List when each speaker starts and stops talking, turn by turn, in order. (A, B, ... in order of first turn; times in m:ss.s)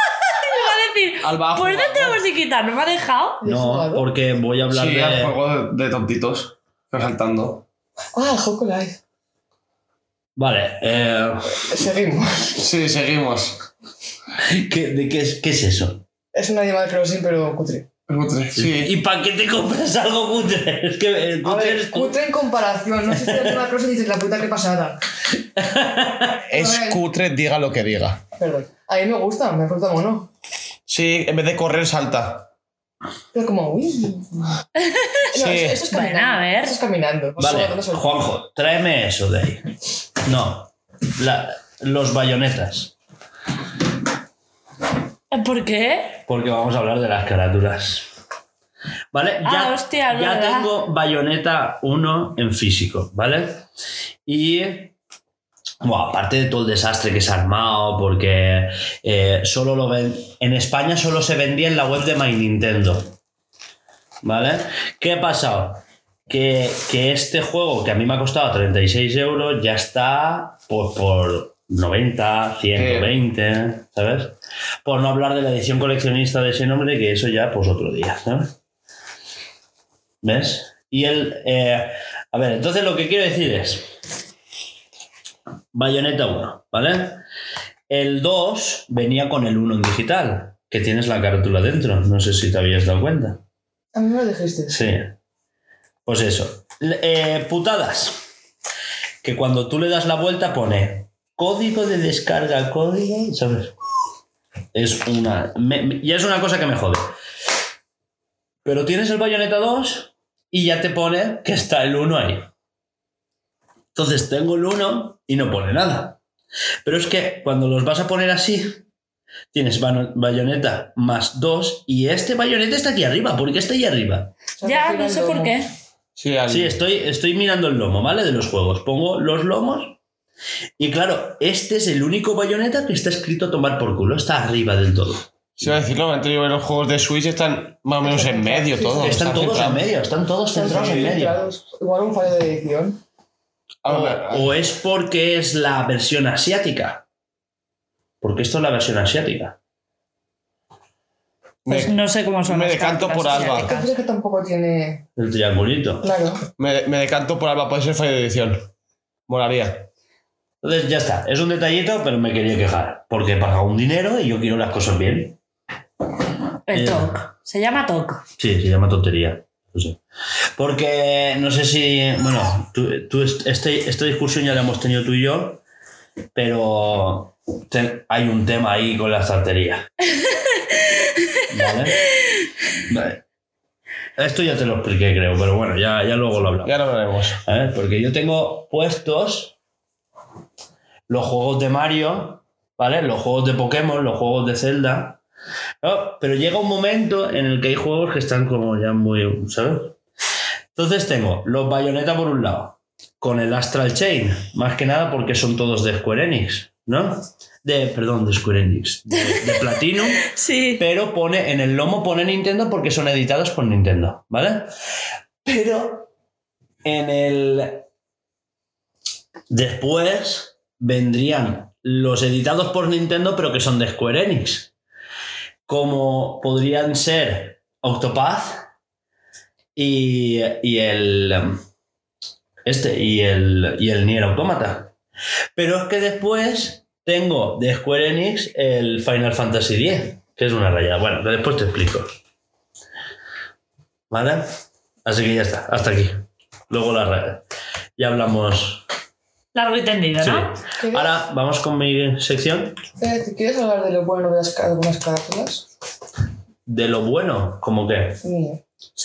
0:00.2-0:03.4 A
0:01.2-0:02.2 B
0:03.4-0:04.1 C
0:03.4-0:05.4 D
0:04.7-0:07.6 B
0:08.2-0:09.0 C
0:10.4-0:11.6 D
0:11.6-0:12.6 C
0:12.6-0:13.7 B
0:14.4-0:16.0 D
0:16.3-0:17.9 C
0:18.1-0:18.9 B
0:18.6-0:22.2 D
0:21.4-0:25.0 C
0:23.1-0:23.6 D
0:25.6-0:26.4 D
0:26.5-0:28.2 B
0:26.5-0:27.0 C
0:28.4-0:30.3 C
0:30.9-0:32.5 B
0:33.3-0:34.6 C
0:34.8-0:35.3 A
0:35.3-0:38.2 C
0:35.4-0:35.8 B
0:35.9-0:36.8 A
0:37.4-0:39.7 D
0:40.2-0:42.9 D
0:45.3-0:46.2 A
0:46.3-0:48.1 D
0:49.1-0:53.6 D
0:49.4-0:50.7 A
0:54.3-0:55.0 D
0:55.8-1:03.2 D
1:04.2-1:18.5 D
1:12.8-1:13.1 B
1:20.2-1:23.9 D
1:25.7-1:27.2 D
1:27.9-1:33.4 D
1:33.9-1:34.8 C
1:34.7-1:35.1 D
1:36.1-1:38.2 D
1:39.2-1:43.7 D
1:44.7-1:47.1 D
1:48.6-1:52.5 D
1:54.0-1:56.2 D
1:56.8-1:58.8 D
1:59.5-2:04.3 D
2:04.6-2:05.6 C
2:04.6-2:05.7 A
2:06.2-2:06.8 B
2:06.5-2:10.0 D
2:10.8-2:15.8 D
2:15.6-2:19.9 B
2:18.0-2:19.4 C
2:19.0-2:21.4 D
2:20.5-2:23.0 C
2:23.8-2:24.5 B
2:23.9-2:27.0 D
2:28.2-2:29.6 D
2:31.6-2:33.7 B
2:31.7-2:33.9 A
2:33.5-2:35.0 C
2:35.2-2:36.1 D
2:36.0-2:36.4 C
2:36.6-2:38.7 B
2:39.3-2:39.9 B
2:40.6-2:45.4 D
2:46.7-2:48.2 A
2:46.7-2:47.2 D
2:48.4-2:50.0 D
2:50.6-2:55.6 D
2:56.4-2:59.9 D
3:01.5-3:02.0 D
3:02.9-3:03.2 D
3:04.2-3:06.8 D
3:06.6-3:07.4 B
3:07.4-3:09.6 D
3:11.1-3:15.2 D
3:15.8-3:20.0 D
3:20.8-3:34.7 D
3:30.2-3:30.8 A
3:35.4-3:36.1 D
3:36.8-3:37.8 D
3:39.5-3:44.7 D
3:45.7-3:48.6 D
3:49.8-3:51.6 D
3:52.6-3:54.9 D
3:55.6-4:02.2 D
4:04.1-4:04.5 D
4:05.0-4:07.4 D
4:08.0-4:08.8 D
4:09.6-4:10.6 A
4:10.2-4:12.8 D
4:10.8-4:11.1 C
4:13.0-4:15.7 C
4:16.7-4:18.2 D
4:18.2-4:18.6 C